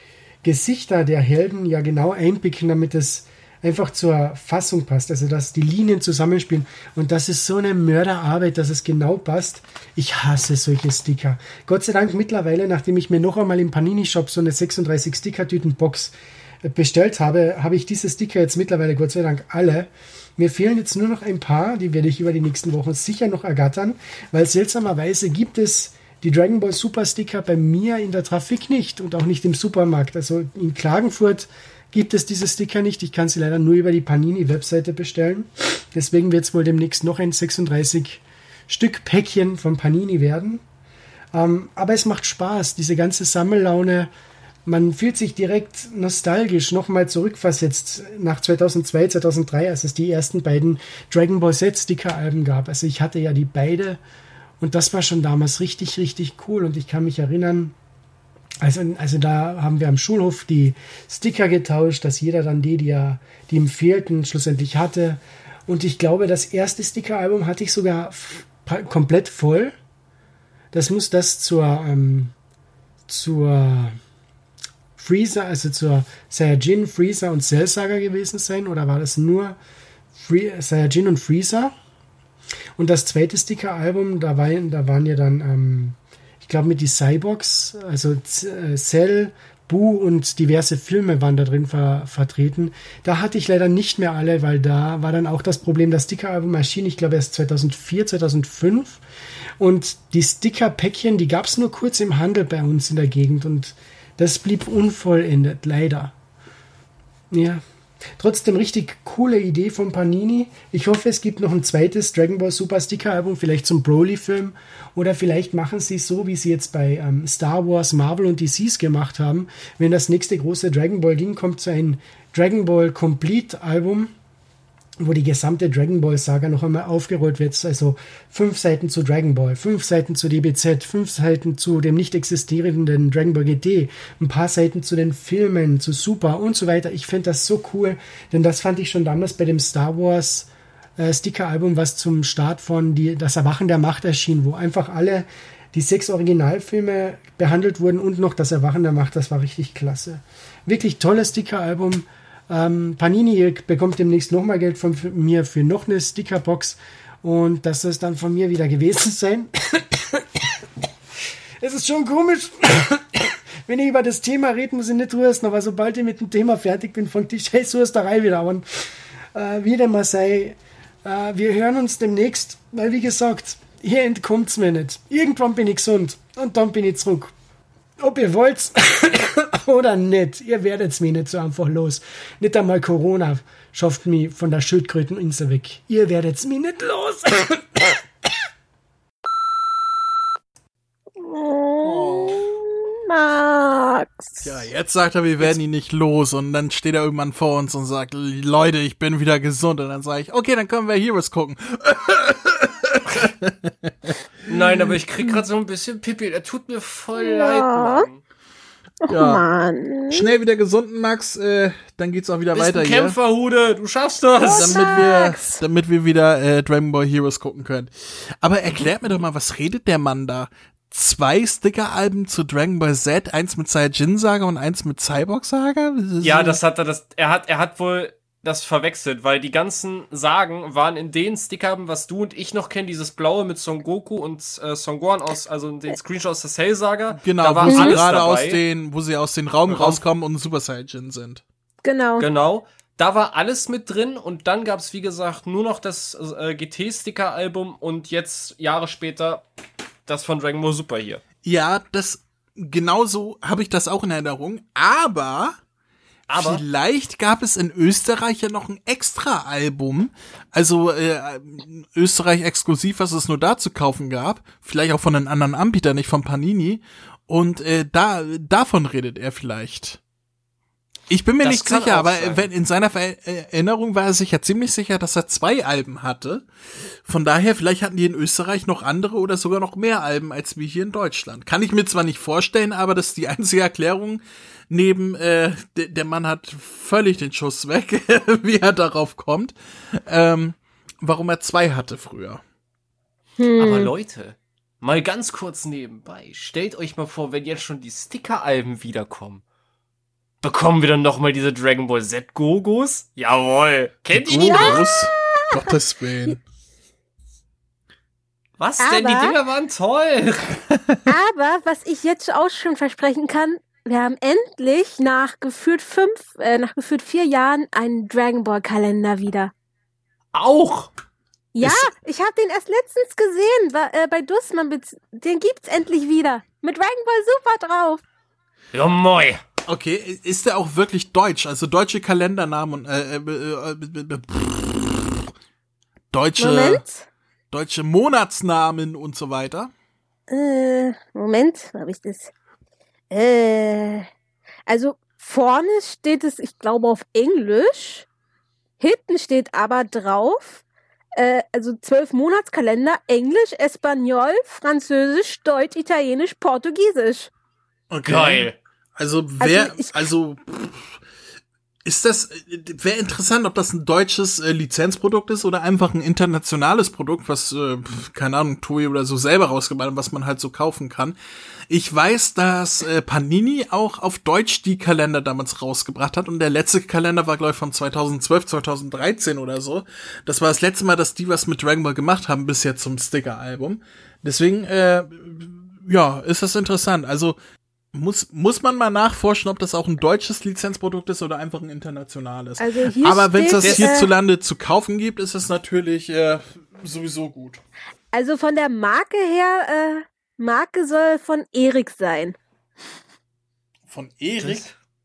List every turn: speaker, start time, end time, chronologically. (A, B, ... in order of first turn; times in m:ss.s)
0:00.4-0:40.6 A
0:41.3-0:44.1 A
0:44.7-0:54.0 A
0:54.6-0:57.8 A
0:58.6-1:09.8 A
1:10.7-1:12.3 A
1:13.1-1:14.0 A
1:15.0-1:19.6 A
1:20.1-1:21.7 A
1:22.8-1:39.0 A
1:39.6-1:46.1 A
1:47.3-1:47.6 A
1:48.2-2:04.1 A
2:05.0-2:40.6 A
2:41.6-2:48.7 A
2:49.3-2:57.3 A
2:58.0-3:08.0 A
3:11.2-3:14.5 B
3:11.8-3:12.5 C
3:14.4-3:24.2 C
3:24.5-3:28.2 D
3:27.2-3:28.1 B
3:29.0-3:30.3 B
3:29.1-3:29.4 C
3:30.1-3:33.2 C
3:32.5-3:35.0 D
3:34.4-3:35.6 B
3:34.4-3:46.6 C
3:46.2-3:58.6 D
3:57.2-4:01.4 C
3:57.7-3:58.0 B
3:59.7-4:00.0 D
4:01.8-4:02.3 B
4:02.2-4:09.4 D
4:10.1-4:11.2 D
4:11.4-4:15.6 C
4:16.3-4:16.6 D
4:16.3-4:30.0 C
4:31.1-4:36.5 C
4:31.4-4:32.5 D
4:37.1-4:52.4 C
4:53.4-4:53.9 B
4:53.6-4:59.4 D
5:00.4-5:04.8 D
5:04.1-5:06.4 C
5:04.4-5:05.5 B
5:08.6-5:10.6 D
5:08.8-5:09.4 B
5:11.1-5:19.5 B
5:20.3-5:20.9 D
5:21.6-5:28.0 B
5:21.6-5:21.9 C
5:28.7-5:29.4 D
5:29.7-5:35.3 C
5:36.1-5:36.8 C
5:36.4-5:37.1 B
5:37.5-5:39.7 C
5:40.3-5:42.3 B
5:43.1-5:44.1 B
5:44.7-5:48.1 B
5:48.8-5:50.6 B
5:51.2-5:57.3 B
5:57.9-6:01.0 C
5:58.1-5:58.6 D
5:59.4-6:00.0 B
6:01.8-6:11.2 C
6:11.7-6:27.4 C
6:27.9-6:37.6 C
6:32.6-6:34.1 B
6:33.6-6:34.0 D
6:38.1-6:42.4 B
6:43.9-6:44.6 C
6:44.4-6:44.7 D